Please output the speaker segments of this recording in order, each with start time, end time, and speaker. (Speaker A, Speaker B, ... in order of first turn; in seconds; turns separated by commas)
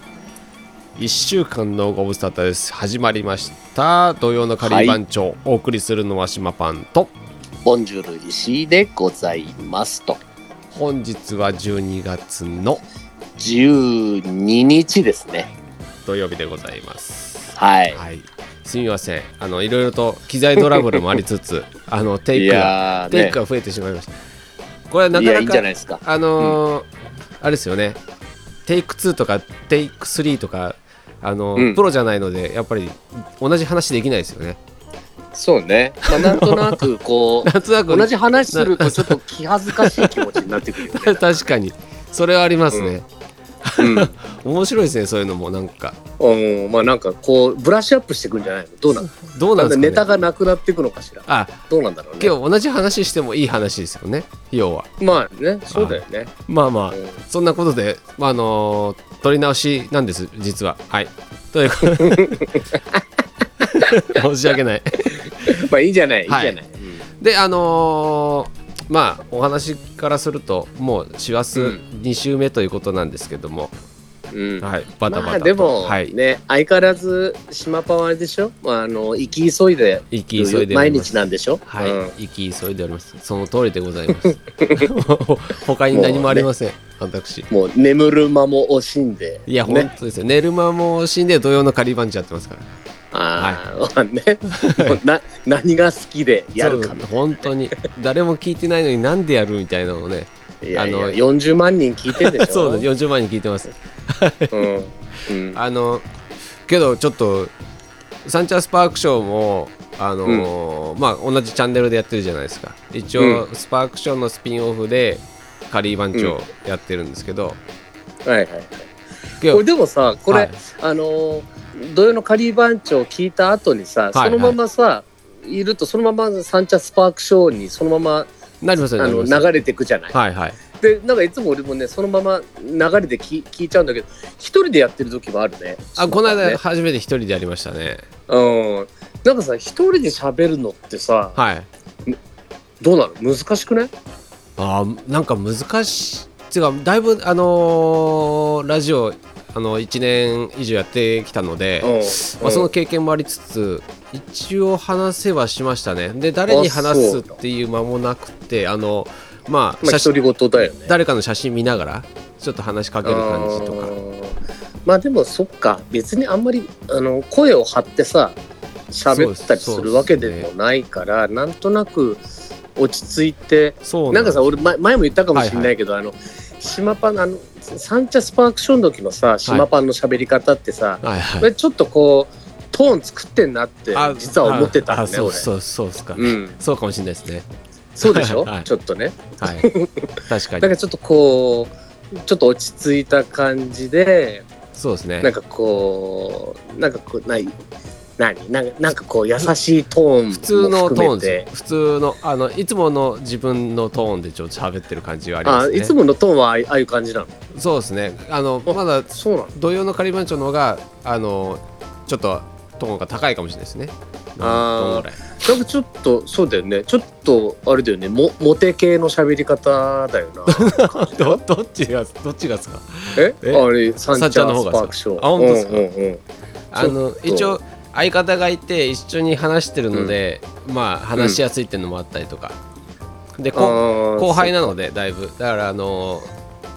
Speaker A: 1.0-7.1, Speaker B: 4.6-5.0, Speaker B: 7.6-10.2, Speaker A: 10.7-12.8, Speaker B: 13.4-15.5, Speaker A: 16.1-24.1, Speaker B: 17.6-18.0, Speaker B: 22.4-23.4, Speaker A: 24.9-26.9, Speaker B: 25.1-26.6, Speaker A: 27.4-28.0, Speaker A: 28.7-34.6, Speaker B: 31.6-31.8, Speaker B: 35.3-41.4, Speaker A: 36.1-36.8, Speaker A: 37.4-40.1, Speaker A: 40.8-43.1, Speaker A: 43.6-46.0, Speaker B: 43.8-44.1, Speaker B: 46.2-52.4, Speaker A: 49.0-50.1, Speaker A: 51.3-51.6, Speaker A: 52.2-54.9, Speaker B: 55.0-56.4, Speaker A: 55.7-62.4, Speaker B: 56.9-57.2, Speaker B: 62.0-63.0, Speaker A: 63.6-65.6, Speaker B: 65.2-67.0, Speaker A: 66.3-66.6, Speaker A: 67.2-73.7, Speaker B: 71.5-71.8, Speaker B: 74.3-82.1, Speaker A: 74.6-76.1, Speaker A: 80.1-87.5, Speaker B: 84.6-84.9, Speaker B: 85.9-86.5, Speaker B: 87.5-89.9, Speaker A: 89.5-92.7, Speaker B: 93.1-97.1, Speaker A: 94.5-95.0, Speaker A: 96.6-101.2, Speaker B: 100.6-102.9, Speaker A: 102.2-104.5, Speaker B: 104.5-105.6, Speaker A: 105.5-106.1, Speaker A: 106.7-107.5, Speaker A: 108.2-117.6, Speaker B: 110.2-110.5, Speaker B: 113.2-113.5, Speaker B: 118.3-118.8, Speaker B: 119.5-128.3, Speaker A: 120.3-120.6, Speaker A: 124.1-124.6, Speaker A: 128.6-129.5, Speaker B: 129.0-130.2, Speaker A: 130.1-130.6, Speaker B: 130.8-136.6, Speaker A: 136.0-138.1, Speaker B: 138.3-141.4, Speaker A: 141.4-141.7, Speaker B: 142.8-143.9, Speaker A: 144.6-160.2, Speaker B: 151.8-152.7, Speaker B: 156.5-157.4, Speaker B: 159.8-160.9, Speaker A: 160.9-163.9, Speaker B: 163.0-168.4, Speaker B: 168.9-172.2, Speaker A: 169.1-170.5, Speaker B: 172.8-185.5, Speaker A: 173.8-174.7, Speaker A: 175.3-175.7, Speaker A: 181.0-181.5, Speaker A: 183.9-187.5, Speaker B: 186.2-186.6, Speaker B: 188.0-194.5, Speaker A: 188.0-188.7, Speaker A: 189.4-189.7, Speaker A: 190.3-190.7, Speaker A: 194.8-195.3, Speaker B: 195.2-197.6, Speaker B: 198.2-201.5, Speaker A: 200.3-205.9, Speaker B: 205.4-207.3, Speaker A: 207.5-215.4, Speaker B: 208.7-209.5, Speaker B: 214.4-221.4, Speaker A: 220.5-225.8, Speaker B: 223.2-226.2, Speaker A: 226.7-232.6, Speaker B: 226.8-227.6, Speaker B: 231.2-231.4, Speaker A: 233.4-236.3, Speaker B: 233.5-234.8